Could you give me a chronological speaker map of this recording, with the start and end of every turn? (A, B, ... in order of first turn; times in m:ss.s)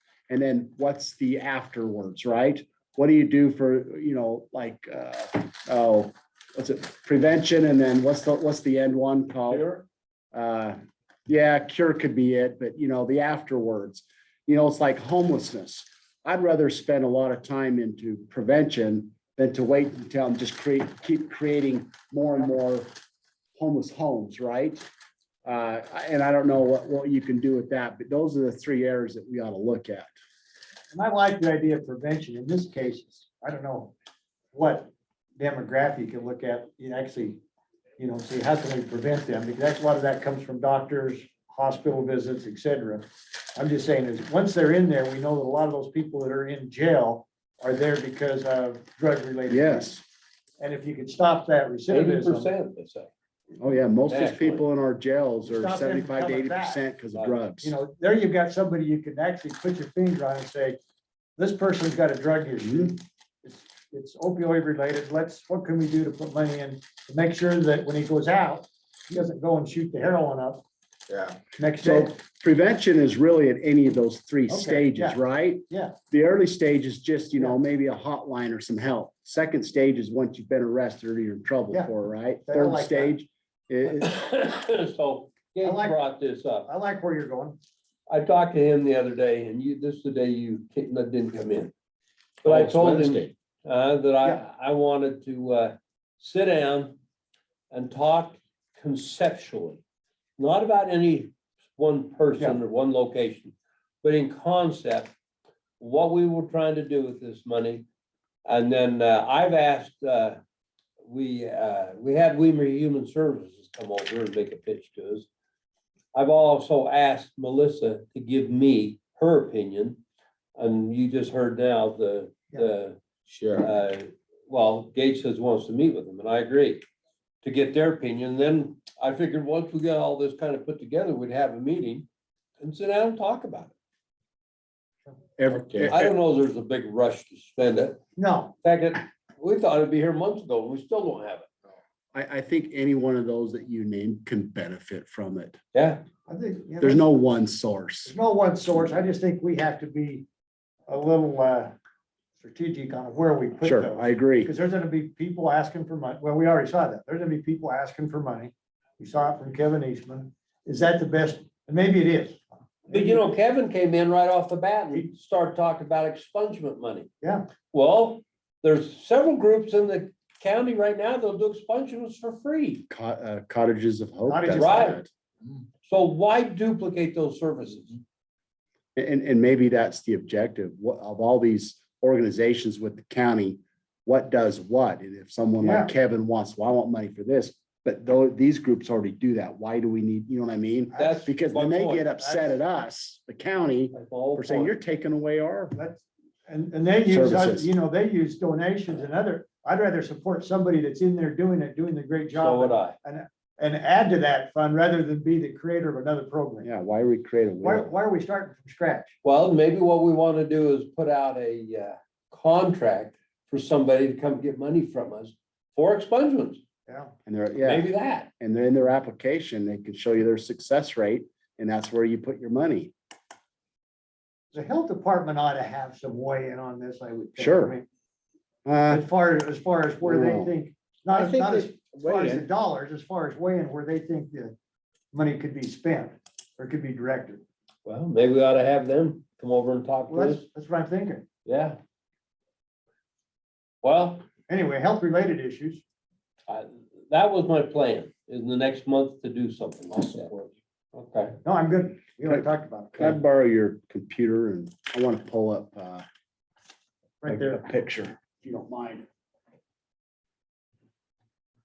0:00.3-0:09.7 A
0:09.5-0:09.8 B
0:10.3-0:22.9 A
0:23.6-0:24.8 A
0:25.4-0:30.1 A
0:30.9-0:33.9 C
0:34.5-0:37.4 C
0:38.0-0:43.0 C
0:43.6-0:49.9 C
0:49.5-0:50.0 A
0:50.6-0:52.5 C
0:51.9-0:53.1 B
0:53.6-0:57.8 A
0:54.1-0:54.6 B
0:55.5-0:56.8 C
0:57.6-1:00.8 C
1:01.4-1:12.2 C
1:02.6-1:02.9 A
1:11.8-1:24.2 A
1:14.5-1:15.2 C
1:15.7-1:16.0 C
1:22.5-1:23.2 C
1:23.9-1:26.7 B
1:25.6-1:26.0 C
1:26.6-1:27.6 C
1:28.1-1:31.7 B
1:32.4-1:33.3 D
1:32.4-1:37.0 B
1:37.7-1:39.8 B
1:40.4-1:45.1 B
1:45.8-1:47.8 B
1:48.5-1:50.4 B
1:51.0-1:55.3 B
1:56.1-2:00.0 B
2:00.6-2:03.0 B
2:03.3-2:03.7 D
2:03.5-2:06.8 B
2:07.4-2:12.1 B
2:12.6-2:13.7 B
2:15.4-2:16.1 A
2:15.5-2:16.0 D
2:15.9-2:18.0 B
2:18.2-2:18.6 C
2:18.6-2:21.5 B
2:22.1-2:25.6 A
2:25.7-2:26.0 B
2:26.3-2:27.1 C
2:26.8-2:28.1 A
2:28.0-2:30.3 C
2:30.9-2:31.8 C
2:32.4-2:43.2 C
2:33.6-2:34.5 A
2:42.9-2:47.1 B
2:47.2-2:47.5 C
2:47.7-2:52.9 B
2:52.9-2:55.1 A
2:54.3-2:55.0 C
2:54.5-2:55.0 B
2:55.8-2:58.0 B
2:59.0-3:15.8 A
3:05.6-3:05.9 C
3:10.9-3:11.4 C
3:11.0-3:12.1 B
3:12.2-3:12.6 C
3:13.9-3:14.7 B
3:15.7-3:26.7 C
3:17.1-3:17.7 A
3:22.3-3:23.0 B
3:26.6-3:27.9 A
3:27.6-3:29.2 C
3:29.2-3:36.6 B
3:36.9-3:37.2 C
3:37.3-3:37.9 A
3:37.6-3:38.3 B
3:38.4-3:42.9 A
3:44.5-3:47.9 C
3:47.4-3:47.8 A
3:48.7-3:49.1 A
3:48.9-3:54.5 C
3:50.0-3:50.5 A
3:51.2-3:52.4 D
3:55.1-3:57.4 C
3:57.8-4:00.4 B
4:00.1-4:01.2 C
4:01.5-4:01.8 B
4:03.8-4:04.2 B
4:04.5-4:05.8 C
4:06.5-4:11.4 B
4:11.4-4:13.2 C
4:13.0-4:16.0 A
4:17.2-4:17.6 C
4:17.3-4:19.0 A